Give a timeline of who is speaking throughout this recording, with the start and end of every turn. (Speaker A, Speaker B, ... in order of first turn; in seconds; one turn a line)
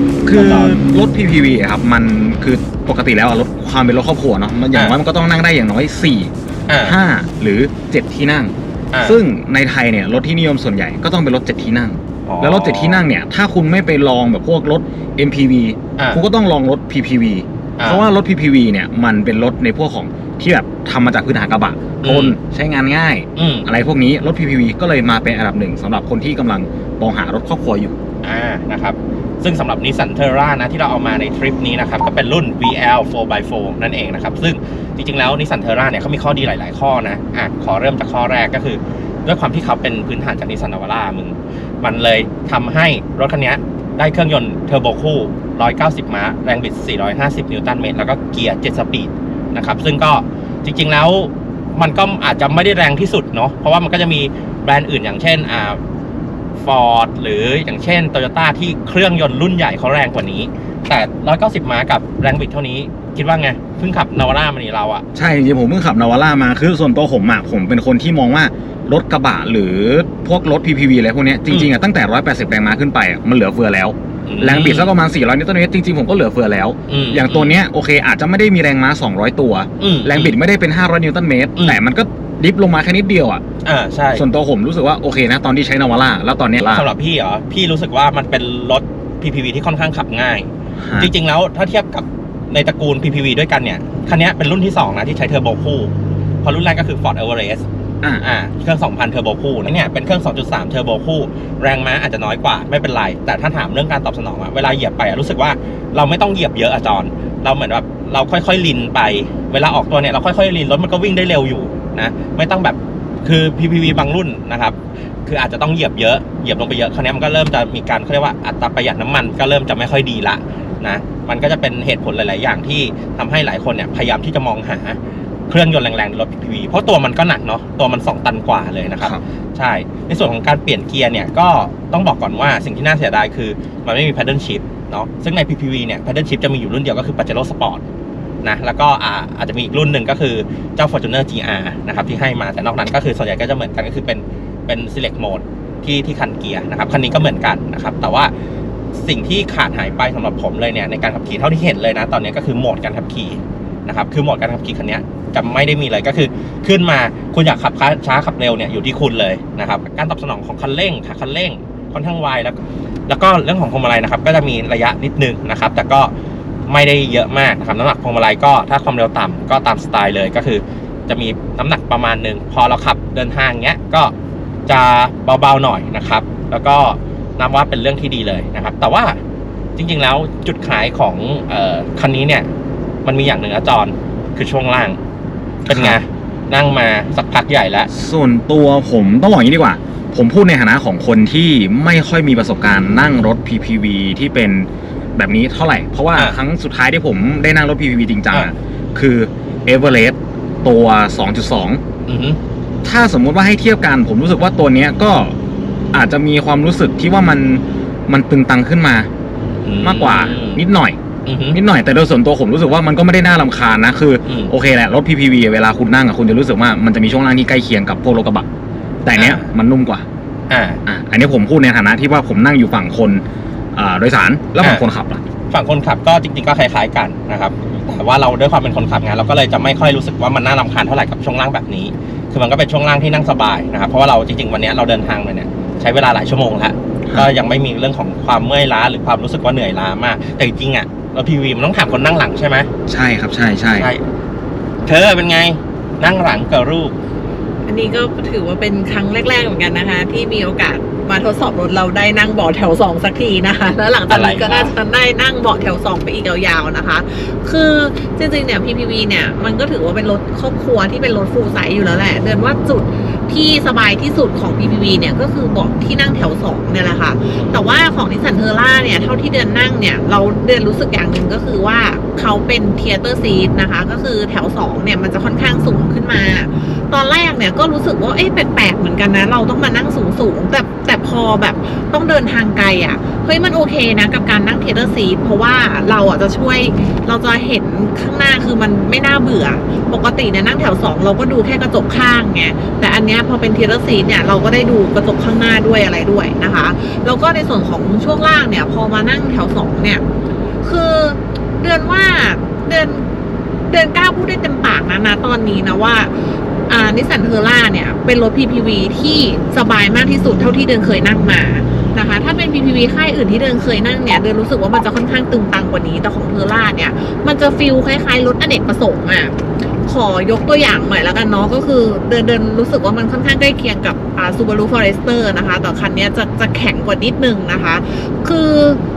Speaker A: 0.2-28.0
Speaker B: 0.3-0.8
Speaker B: 6.7-7.0
Speaker B: 8.9-9.2
Speaker B: 12.3-13.0
Speaker B: 16.0-16.2
Speaker B: 17.8-18.1
Speaker B: 22.0-22.4
Speaker B: 23.4-23.7
Speaker B: 28.2-55.8
Speaker B: 56.6-65.0
Speaker A: 65.2-83.4
Speaker B: 74.3-74.9
Speaker B: 76.9-77.5
Speaker B: 79.8-80.3
Speaker B: 83.7-84.2
Speaker A: 84.1-86.9
Speaker B: 86.6-95.9
Speaker A: 90.8-91.1
Speaker B: 96.4-97.7
Speaker B: 98.2-137.8
Speaker B: 138.4-148.3
Speaker B: 149.0-166.1
Speaker B: 166.7-174.1
Speaker B: 174.7-179.2
Speaker B: 179.8-182.5
Speaker B: 183.1-185.0
Speaker A: 185.7-186.0
Speaker B: 185.7-187.9
Speaker A: 187.9-201.8
Speaker B: 202.1-202.4
Speaker A: 202.8-205.4
Speaker A: 205.9-209.1
Speaker B: 209.6-210.6
Speaker A: 209.8-211.0
Speaker B: 211.3-211.6
Speaker A: 211.5-218.5
Speaker B: 214.3-214.5
Speaker A: 219.1-220.1
Speaker B: 219.2-219.5
Speaker B: 220.5-220.8
Speaker A: 220.9-223.2
Speaker A: 223.8-225.3
Speaker B: 225.5-242.7
Speaker A: 242.9-243.9
Speaker B: 243.8-244.0
Speaker B: 244.9-246.9
Speaker C: 247.7-300.0
Speaker B: 254.1-254.7
Speaker C: 300.6-303.1
Speaker C: 303.7-306.1
Speaker C: 306.7-319.3
Speaker C: 319.9-328.8